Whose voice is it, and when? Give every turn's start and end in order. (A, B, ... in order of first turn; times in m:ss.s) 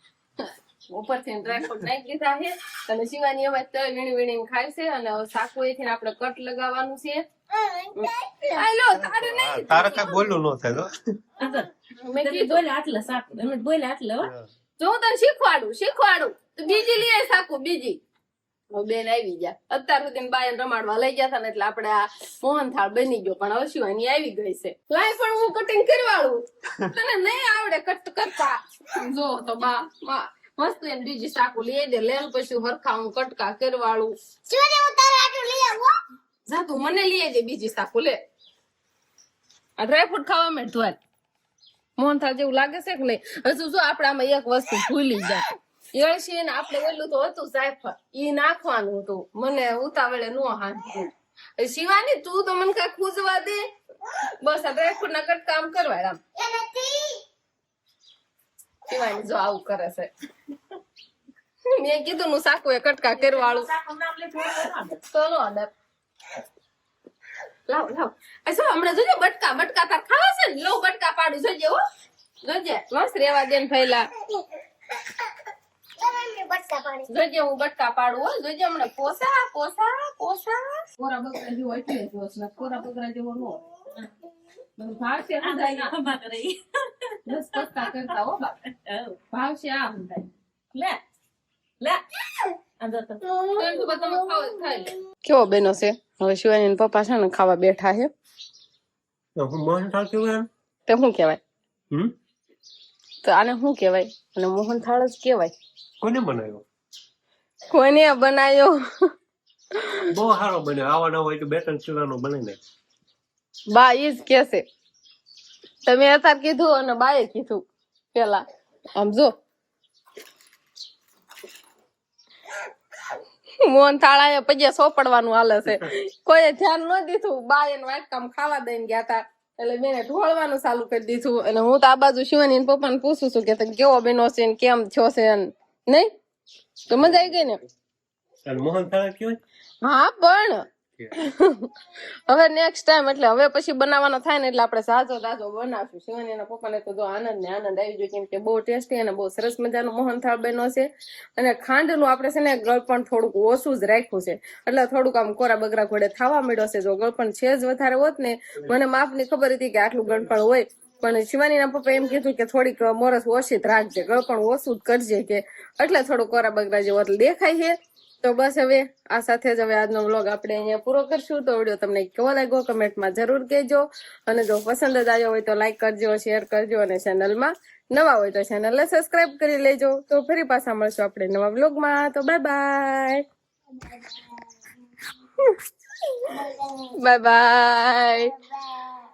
0:00.4-0:07.2 A
0:07.5-0:08.7 B
0:08.0-0:10.4 A
0:08.9-0:10.9 C
0:11.4-0:11.7 D
0:12.0-0:12.6 A
0:12.2-0:14.3 D
0:14.8-0:18.0 A
0:18.7-0:34.1 A
0:34.5-0:35.9 B
0:36.5-0:38.2 A
0:39.8-0:41.0 A
0:42.0-0:53.6 A
0:54.4-0:56.2 A
0:56.4-0:57.2 B
0:58.9-1:00.1 A
1:01.7-1:03.7 A
1:03.1-1:05.0 D
1:05.0-1:05.7 A
1:07.7-1:11.8 A
1:12.4-1:14.1 A
1:16.0-1:17.1 B
1:17.1-1:23.6 A
1:24.8-1:25.9 A
1:25.4-1:26.6 D
1:27.1-1:28.1 D
1:27.3-1:28.7 A
1:28.8-1:29.2 D
1:29.3-1:30.8 A
1:32.8-1:33.2 D
1:33.2-1:34.4 B
1:33.6-1:38.1 A
1:39.4-1:40.5 C
1:40.9-1:41.4 A
1:43.2-1:45.5 A
1:46.0-1:46.6 C
1:47.7-1:48.8 A
1:49.8-1:50.1 A
1:50.1-1:52.6 C
1:53.7-1:54.6 A
1:55.9-1:58.4 A
1:59.0-1:59.3 A
2:03.6-2:16.1 A
2:16.9-2:17.6 A
2:17.0-2:17.5 C
2:18.5-2:19.4 C
2:19.8-2:21.7 A
2:22.3-3:03.2 A
3:03.9-3:04.2 B
3:06.3-3:06.9 B
3:07.0-3:08.3 A
3:08.3-3:08.8 B